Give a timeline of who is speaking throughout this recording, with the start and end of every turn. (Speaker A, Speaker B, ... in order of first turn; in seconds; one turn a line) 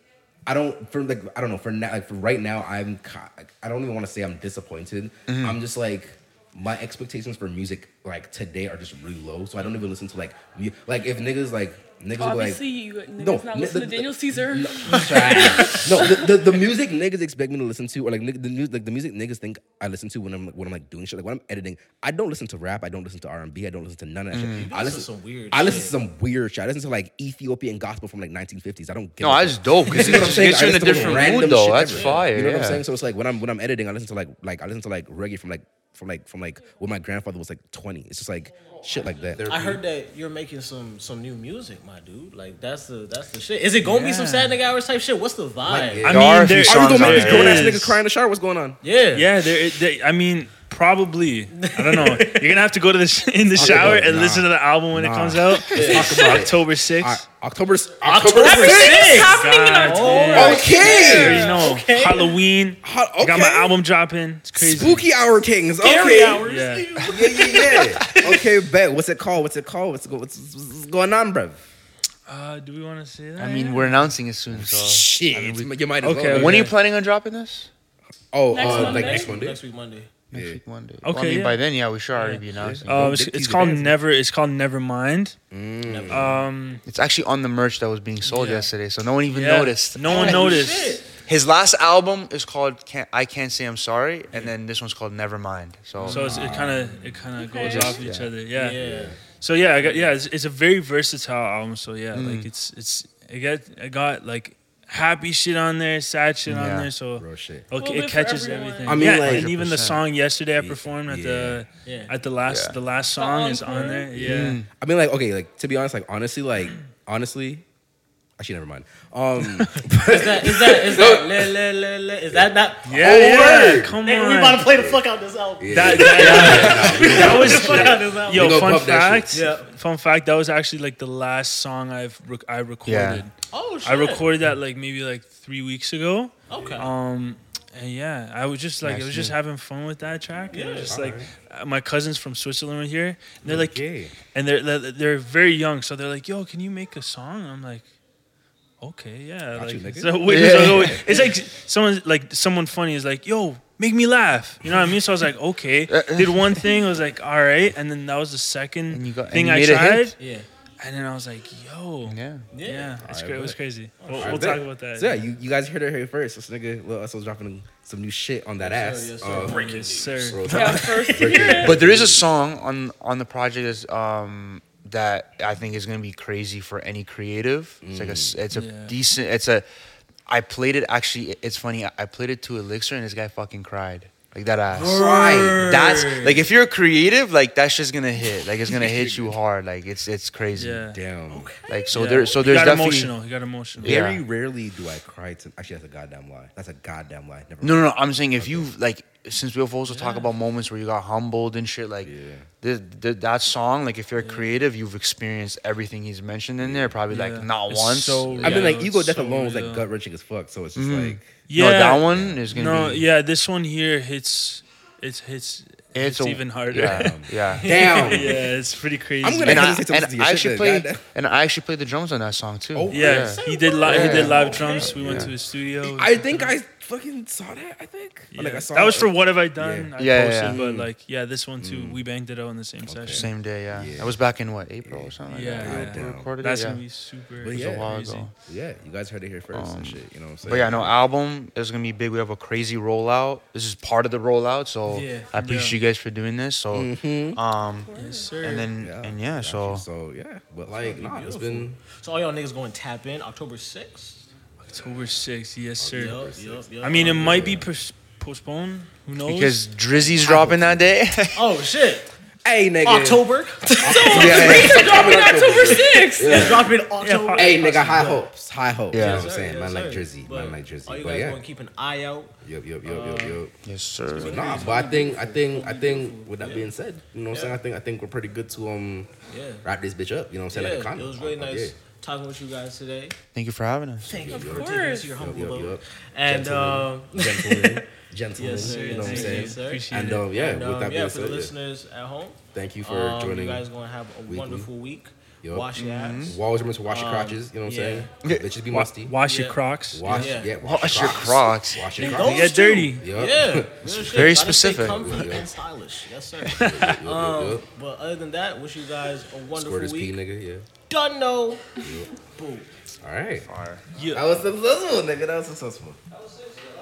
Speaker A: 0.5-12.6
Speaker B: 5.3-5.6
Speaker C: 12.2-16.4
Speaker A: 13.2-39.8
Speaker B: 24.3-24.7
Speaker D: 24.6-25.9
Speaker B: 29.2-32.8
Speaker D: 30.9-31.3
Speaker D: 31.9-32.3
Speaker D: 39.5-46.3
Speaker E: 43.8-44.6
Speaker A: 45.6-48.8
Speaker E: 46.0-48.0
Speaker B: 46.1-47.9
Speaker D: 48.8-49.3
Speaker E: 49.1-57.2
Speaker D: 51.5-52.5
Speaker A: 53.6-59.2
Speaker D: 53.6-54.1
Speaker D: 55.7-56.4
Speaker D: 58.0-62.4
Speaker C: 58.3-61.7
Speaker E: 59.0-65.0
Speaker A: 60.3-61.5
Speaker A: 62.8-63.8
Speaker A: 64.5-66.4
Speaker D: 65.8-68.4
Speaker E: 66.4-66.9
Speaker A: 67.1-71.6
Speaker E: 72.3-74.2
Speaker B: 73.4-77.7
Speaker A: 74.5-76.7
Speaker E: 76.0-76.8
Speaker A: 78.3-79.6
Speaker C: 78.5-79.3
Speaker D: 78.6-80.1
Speaker B: 80.3-83.2
Speaker A: 80.3-80.6
Speaker E: 81.0-81.6
Speaker E: 82.1-85.4
Speaker A: 82.6-83.9
Speaker A: 85.5-86.4
Speaker D: 85.9-86.4
Speaker E: 86.1-86.8
Speaker B: 86.8-90.5
Speaker E: 88.2-88.7
Speaker E: 89.3-91.0
Speaker D: 90.1-91.0
Speaker B: 91.2-96.2
Speaker E: 96.0-98.8
Speaker D: 96.1-97.2
Speaker C: 97.3-98.0
Speaker B: 97.6-97.9
Speaker A: 97.9-99.2
Speaker D: 98.5-99.2
Speaker E: 99.3-114.6
Speaker D: 99.8-100.1
Speaker B: 102.1-102.5
Speaker B: 106.5-106.9
Speaker A: 107.2-107.7
Speaker C: 107.8-109.0
Speaker A: 108.8-109.5
Speaker B: 109.0-110.0
Speaker A: 110.6-111.6
Speaker D: 111.8-112.1
Speaker B: 112.5-112.8
Speaker C: 113.2-114.1
Speaker A: 114.1-117.6
Speaker B: 114.2-114.7
Speaker A: 118.4-121.5
Speaker D: 120.0-123.4
Speaker A: 122.3-124.0
Speaker E: 122.8-124.8
Speaker D: 124.0-128.8
Speaker A: 124.8-125.0
Speaker A: 125.6-129.3
Speaker E: 125.7-133.3
Speaker B: 126.2-127.7
Speaker D: 129.3-129.7
Speaker B: 132.8-133.2
Speaker D: 133.5-134.3
Speaker E: 133.8-147.8
Speaker D: 136.5-136.9
Speaker B: 138.8-139.4
Speaker D: 140.5-140.9
Speaker A: 140.8-141.3
Speaker A: 143.4-144.1
Speaker E: 148.8-160.2
Speaker A: 149.5-151.0
Speaker B: 150.2-151.0
Speaker B: 155.9-156.6
Speaker B: 158.9-160.1
Speaker D: 160.2-160.5
Speaker E: 160.8-165.2
Speaker B: 162.1-162.4
Speaker D: 162.5-163.0
Speaker A: 163.0-163.6
Speaker D: 164.0-164.5
Speaker A: 164.2-169.6
Speaker D: 168.6-171.7
Speaker E: 169.5-170.8
Speaker A: 170.2-172.3
Speaker C: 170.4-171.8
Speaker B: 171.5-179.6
Speaker A: 177.8-178.4
Speaker E: 178.5-179.0
Speaker B: 180.3-190.9
Speaker D: 184.8-185.6
Speaker A: 184.8-185.7
Speaker E: 184.8-186.4
Speaker A: 188.7-189.4
Speaker E: 190.6-191.0
Speaker A: 190.9-191.5
Speaker D: 191.3-191.8
Speaker B: 191.7-193.1
Speaker E: 191.9-194.0
Speaker A: 193.8-198.7
Speaker B: 193.8-194.2
Speaker B: 197.6-208.7
Speaker A: 202.0-202.4
Speaker E: 204.2-204.5
Speaker A: 206.6-207.0
Speaker E: 207.1-209.9
Speaker A: 208.3-211.4
Speaker B: 210.7-213.1
Speaker E: 211.5-219.7
Speaker A: 212.1-212.5
Speaker B: 215.9-218.1
Speaker A: 216.8-218.5
Speaker D: 217.6-217.9
Speaker A: 219.2-221.0
Speaker B: 219.4-224.4
Speaker A: 222.7-229.9
Speaker E: 222.9-226.5
Speaker D: 223.0-225.0
Speaker B: 224.9-225.3
Speaker E: 228.3-233.3
Speaker B: 230.0-230.6
Speaker A: 230.4-230.9
Speaker A: 231.6-232.0
Speaker A: 232.8-234.2
Speaker B: 233.1-236.8
Speaker A: 234.8-236.3
Speaker E: 235.3-238.3
Speaker A: 237.4-240.9
Speaker B: 237.5-238.3
Speaker B: 239.5-249.8
Speaker D: 244.9-245.3
Speaker E: 245.3-245.8
Speaker A: 246.7-247.4
Speaker C: 247.9-248.3
Speaker E: 247.9-248.7
Speaker A: 248.8-251.8
Speaker D: 250.7-254.2
Speaker E: 254.6-256.3
Speaker A: 255.8-257.6
Speaker D: 255.9-257.6
Speaker E: 256.8-259.6
Speaker B: 259.2-261.4
Speaker A: 260.2-260.9
Speaker D: 261.4-262.1
Speaker A: 262.4-266.8
Speaker D: 262.8-265.1
Speaker C: 263.8-266.6
Speaker B: 264.1-264.9
Speaker D: 266.2-268.2
Speaker E: 267.0-268.2
Speaker A: 267.3-271.4
Speaker B: 268.9-269.3
Speaker D: 268.9-272.3
Speaker A: 272.4-273.5
Speaker D: 272.8-273.4
Speaker B: 273.6-274.5
Speaker D: 274.1-276.7
Speaker A: 274.2-279.1
Speaker D: 277.3-277.6
Speaker D: 279.3-279.6
Speaker A: 279.6-281.8
Speaker D: 280.5-283.1
Speaker B: 283.3-284.1
Speaker A: 284.0-291.5
Speaker D: 284.0-287.9
Speaker C: 284.3-285.2
Speaker D: 288.4-296.4
Speaker E: 288.5-290.3
Speaker A: 292.5-293.7
Speaker A: 294.2-294.7
Speaker A: 295.4-299.1
Speaker B: 295.8-296.4
Speaker D: 296.9-298.1
Speaker E: 298.7-300.3
Speaker D: 299.2-300.5
Speaker A: 299.9-305.5
Speaker B: 300.6-301.9
Speaker D: 301.9-310.2
Speaker E: 302.0-303.1
Speaker B: 303.8-305.4
Speaker A: 306.5-307.7
Speaker E: 306.6-307.0
Speaker A: 309.5-310.7
Speaker D: 310.9-312.7
Speaker A: 311.8-312.1
Speaker A: 313.0-313.5
Speaker B: 313.5-313.8
Speaker E: 313.9-314.3
Speaker A: 314.1-316.0